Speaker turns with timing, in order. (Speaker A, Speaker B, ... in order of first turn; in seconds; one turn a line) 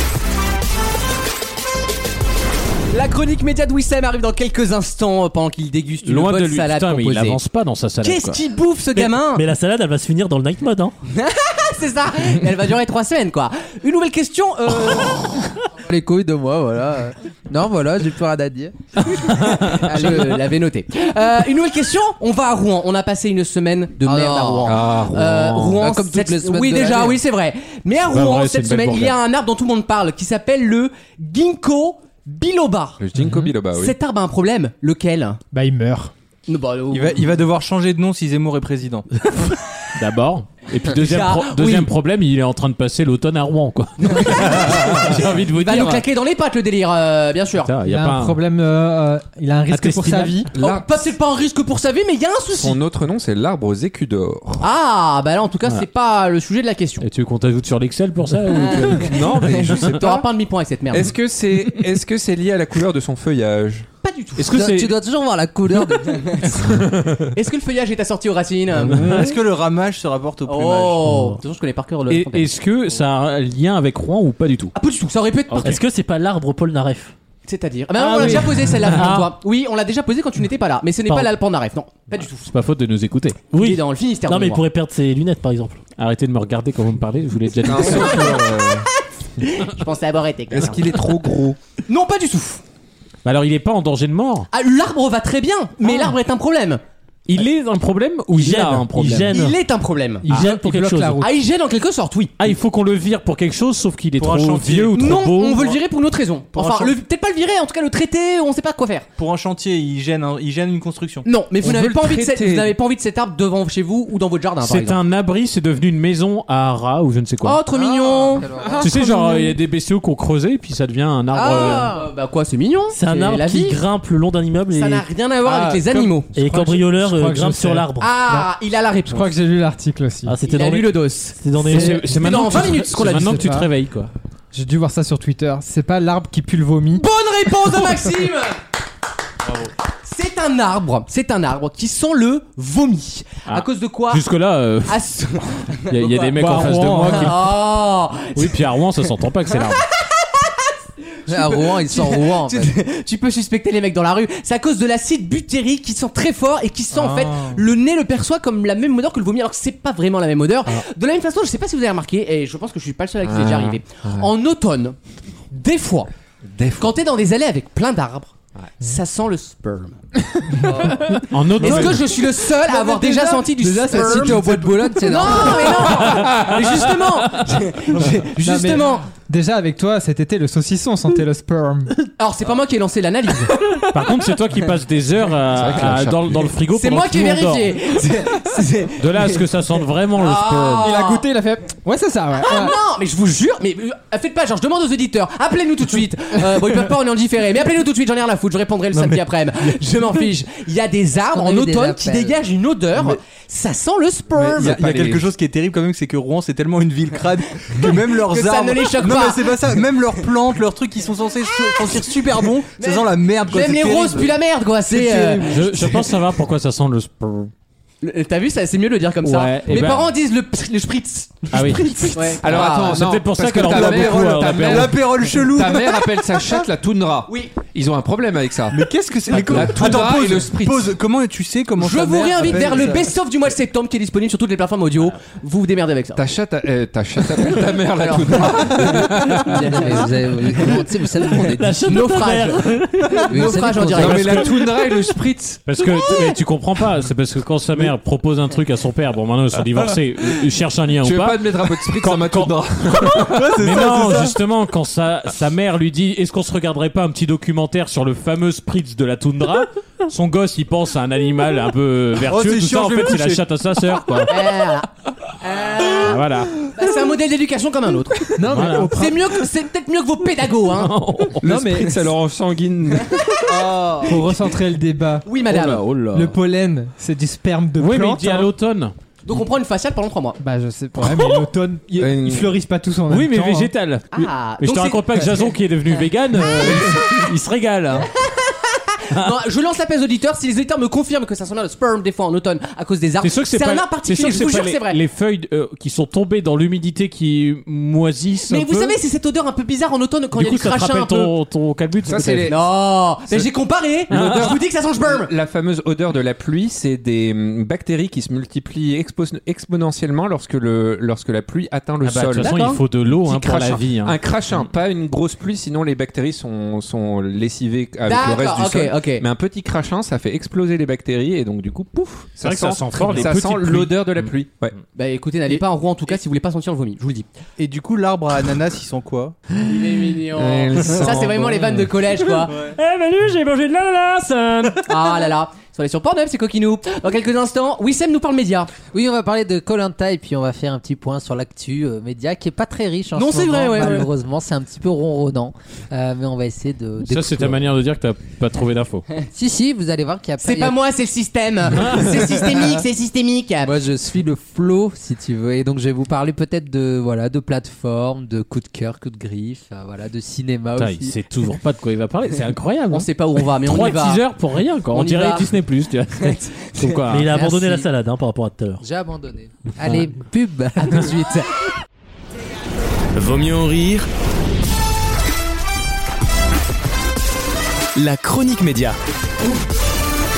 Speaker A: 2.9-7.4
Speaker B: 6.0-8.4
Speaker A: 8.0-9.4
Speaker C: 8.9-10.9
Speaker A: 11.1-15.5
Speaker D: 15.7-20.4
Speaker A: 19.2-33.0
Speaker B: 19.2-20.1
Speaker D: 24.0-24.9
Speaker E: 24.6-25.8
Speaker D: 25.7-27.2
Speaker B: 28.1-29.2
Speaker E: 33.0-34.0
Speaker F: 33.2-33.5
Speaker A: 33.8-35.4
Speaker F: 35.5-36.1
Speaker A: 36.5-37.2
Speaker G: 36.9-39.1
Speaker B: 39.9-46.0
Speaker A: 40.9-41.9
Speaker A: 44.0-47.7
Speaker B: 47.6-48.4
Speaker F: 47.8-50.5
Speaker B: 49.7-50.4
Speaker E: 50.5-51.1
Speaker A: 50.6-52.8
Speaker E: 52.5-54.7
Speaker A: 54.6-57.0
Speaker B: 57.0-60.0
Speaker A: 58.5-61.1
Speaker E: 59.0-60.2
Speaker E: 60.9-63.9
Speaker A: 64.0-64.5
Speaker B: 64.4-65.0
Speaker D: 64.5-66.5
Speaker A: 67.3-69.2
Speaker G: 68.9-71.1
Speaker B: 68.9-69.3
Speaker A: 70.5-72.5
Speaker C: 71.1-71.3
Speaker B: 72.1-74.7
Speaker A: 74.7-75.8
Speaker B: 75.5-75.8
Speaker C: 75.6-77.1
Speaker A: 77.5-82.5
Speaker B: 78.0-79.0
Speaker C: 78.2-79.3
Speaker B: 82.5-83.5
Speaker C: 83.5-85.8
Speaker A: 83.5-84.6
Speaker B: 86.0-88.4
Speaker E: 87.6-88.9
Speaker A: 87.8-91.0
Speaker E: 90.5-91.6
Speaker A: 91.9-92.6
Speaker B: 93.2-94.5
Speaker A: 94.5-96.8
Speaker B: 97.3-99.4
Speaker C: 98.3-99.6
Speaker A: 99.3-100.3
Speaker F: 100.2-101.3
Speaker C: 100.3-101.2
Speaker A: 101.2-102.3
Speaker B: 102.4-105.8
Speaker G: 104.2-105.1
Speaker A: 104.9-109.0
Speaker G: 106.5-106.9
Speaker G: 109.2-111.3
Speaker A: 111.2-115.0
Speaker E: 111.6-112.7
Speaker B: 114.6-117.6
Speaker A: 117.4-118.5
Speaker D: 117.7-118.9
Speaker B: 118.8-121.9
Speaker D: 121.3-122.1
Speaker A: 121.4-123.8
Speaker C: 122.9-125.0
Speaker A: 124.7-126.3
Speaker C: 126.3-128.4
Speaker F: 126.3-127.9
Speaker A: 128.0-129.3
Speaker F: 129.1-130.4
Speaker C: 130.2-132.1
Speaker A: 130.4-133.4
Speaker B: 131.6-134.1
Speaker F: 133.4-133.7
Speaker F: 134.5-137.1
Speaker A: 136.9-138.6
Speaker A: 140.0-144.2
Speaker B: 143.5-145.0
Speaker A: 144.9-148.6
Speaker B: 145.9-147.6
Speaker F: 146.4-147.3
Speaker B: 148.3-149.8
Speaker A: 149.5-150.7
Speaker A: 151.2-164.9
Speaker D: 151.3-152.7
Speaker G: 156.9-157.6
Speaker E: 163.2-164.3
Speaker A: 165.5-166.1
Speaker E: 166.5-166.9
Speaker A: 166.8-170.0
Speaker F: 170.3-175.3
Speaker B: 171.3-172.1
Speaker A: 171.6-174.4
Speaker D: 173.9-176.0
Speaker A: 175.0-179.1
Speaker E: 176.1-176.6
Speaker B: 176.1-176.5
Speaker F: 178.2-181.9
Speaker A: 182.2-183.6
Speaker B: 183.8-187.8
Speaker E: 185.5-186.5
Speaker A: 186.7-189.4
Speaker B: 189.0-190.9
Speaker A: 190.2-191.2
Speaker F: 190.8-192.8
Speaker A: 192.4-204.7
Speaker G: 198.9-199.2
Speaker D: 201.3-202.4
Speaker G: 204.4-214.4
Speaker E: 204.6-205.3
Speaker A: 207.7-209.5
Speaker A: 212.7-215.7
Speaker G: 214.9-215.3
Speaker F: 215.2-215.5
Speaker B: 215.5-217.5
Speaker A: 218.0-222.8
Speaker B: 219.2-220.1
Speaker B: 221.5-225.0
Speaker E: 222.4-230.9
Speaker D: 222.5-222.9
Speaker G: 223.6-226.6
Speaker A: 227.3-227.5
Speaker G: 228.7-233.2
Speaker A: 231.8-236.2
Speaker E: 236.2-239.9
Speaker A: 238.0-240.1
Speaker D: 239.6-242.1
Speaker C: 241.4-243.6
Speaker A: 241.8-244.5
Speaker D: 243.3-244.4
Speaker E: 243.9-245.6
Speaker B: 245.7-264.3
Speaker E: 251.0-253.6
Speaker G: 253.2-254.3
Speaker G: 262.2-263.4
Speaker A: 264.3-264.9
Speaker A: 265.4-270.9
Speaker B: 266.0-266.6
Speaker F: 268.4-269.4
Speaker B: 268.5-269.0
Speaker B: 270.7-271.4
Speaker F: 271.4-272.0
Speaker E: 271.4-273.6
Speaker A: 273.1-273.4
Speaker G: 273.5-274.2
Speaker F: 274.0-275.3
Speaker A: 275.2-275.8
Speaker B: 275.5-276.4
Speaker F: 276.1-278.5
Speaker B: 277.8-278.9
Speaker A: 279.2-280.4
Speaker F: 280.4-283.7
Speaker B: 281.0-281.4
Speaker E: 282.0-282.6
Speaker B: 283.1-288.1
Speaker A: 284.1-285.5
Speaker A: 286.4-287.2
Speaker A: 288.1-295.0
Speaker B: 293.2-298.9
Speaker A: 298.5-301.3
Speaker B: 300.3-302.5
Speaker E: 302.1-302.7
Speaker A: 302.4-305.3
Speaker E: 304.1-312.6
Speaker B: 304.1-304.6
Speaker B: 312.0-314.6
Speaker A: 312.4-312.8
Speaker E: 313.1-324.8
Speaker A: 318.1-319.2
Speaker B: 322.4-324.3
Speaker A: 324.9-327.3
Speaker G: 327.6-329.3
Speaker A: 329.6-332.6
Speaker E: 329.6-331.9
Speaker C: 332.6-334.9
Speaker A: 334.8-338.7
Speaker D: 338.9-347.7
Speaker A: 343.1-344.1
Speaker B: 347.1-349.0
Speaker D: 349.3-350.8
Speaker A: 350.4-353.7
Speaker B: 351.7-352.2
Speaker D: 353.6-361.1
Speaker B: 360.8-367.3
Speaker A: 362.9-364.2
Speaker A: 364.9-365.5
Speaker A: 366.2-366.9
Speaker C: 367.1-368.8
Speaker D: 367.3-367.9
Speaker D: 368.8-371.2
Speaker A: 370.8-371.5
Speaker H: 373.1-374.1
Speaker H: 377.9-379.0